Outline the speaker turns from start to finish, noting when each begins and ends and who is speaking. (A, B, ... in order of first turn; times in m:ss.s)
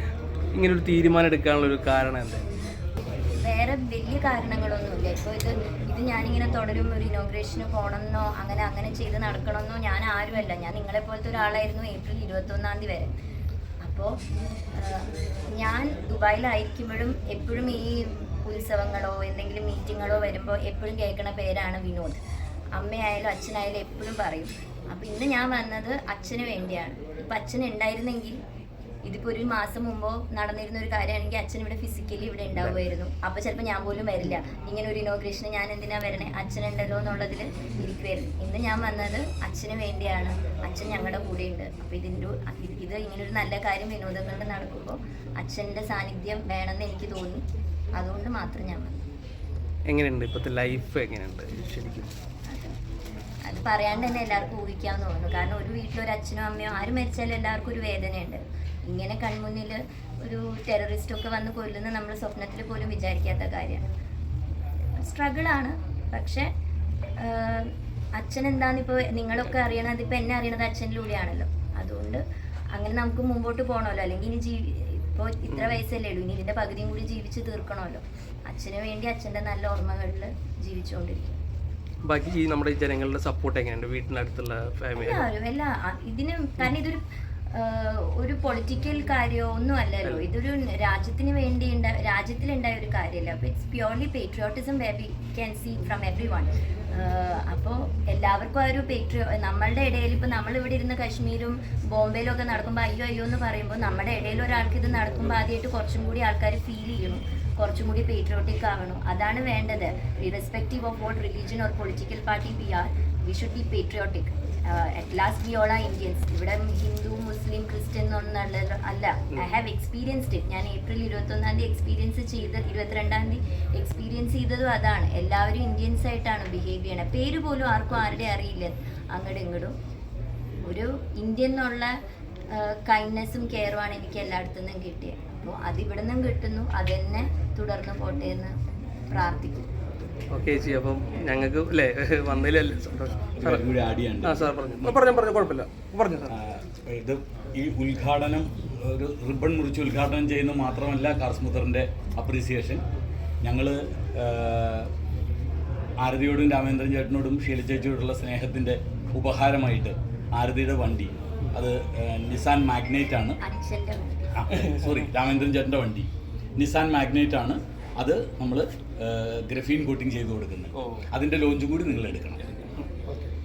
0:00.5-0:02.4 A
0:03.4-0:13.1 B
0:13.8-0:14.2 B
0:14.8-0:22.2 B
0:22.8-0:28.4 B
0:29.1-0:47.4 B
0:48.0-0:49.0 B
0:49.9-0:52.1 A
0:52.5-0:52.8 B
0:53.4-1:03.9 B
1:05.0-1:06.5 B
1:07.2-1:12.2 B
1:12.8-1:21.4 B
1:15.5-1:15.8 A
1:22.1-1:25.3 A
1:25.0-2:09.8 B
2:10.7-2:12.0 B
2:12.5-2:18.5 B
2:19.1-2:19.7 B
2:20.3-2:23.7 A
2:23.4-2:25.0 C
2:24.2-2:26.3 A
2:26.3-2:32.8 C
2:33.4-2:34.9 C
2:36.0-2:43.4 C
2:43.4-2:44.4 B
2:44.4-2:52.5 C
2:44.6-2:45.0 A
2:50.8-2:51.1 A
2:52.9-2:53.2 A